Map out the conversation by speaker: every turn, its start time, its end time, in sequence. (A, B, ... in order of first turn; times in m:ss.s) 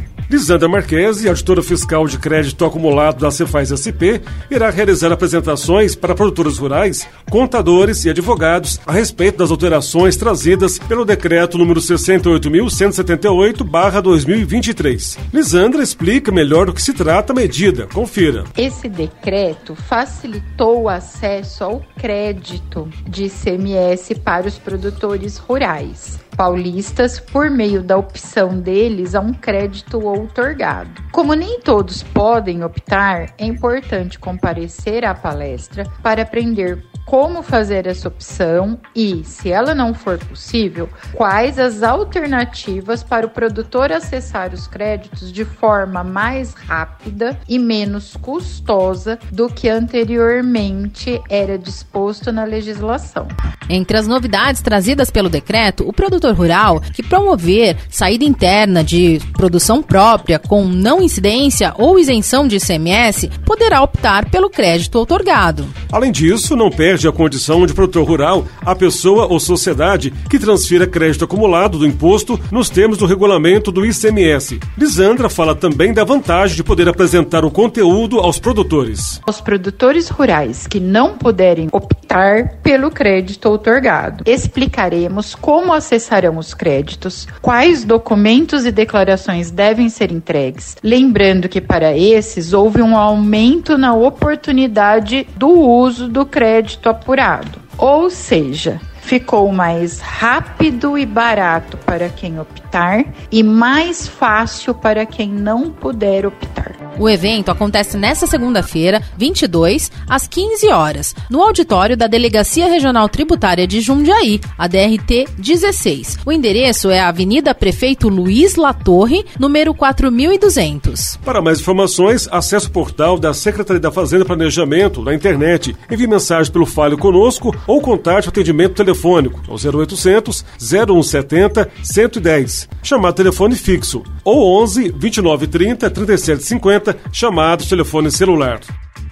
0:00.3-0:18.5 A
0:18.6-0:53.3 B
0:53.7-1:05.7 C
1:05.9-1:19.2 A
1:19.3-1:46.8 B
1:47.0-2:01.2 C
2:01.2-2:18.7 A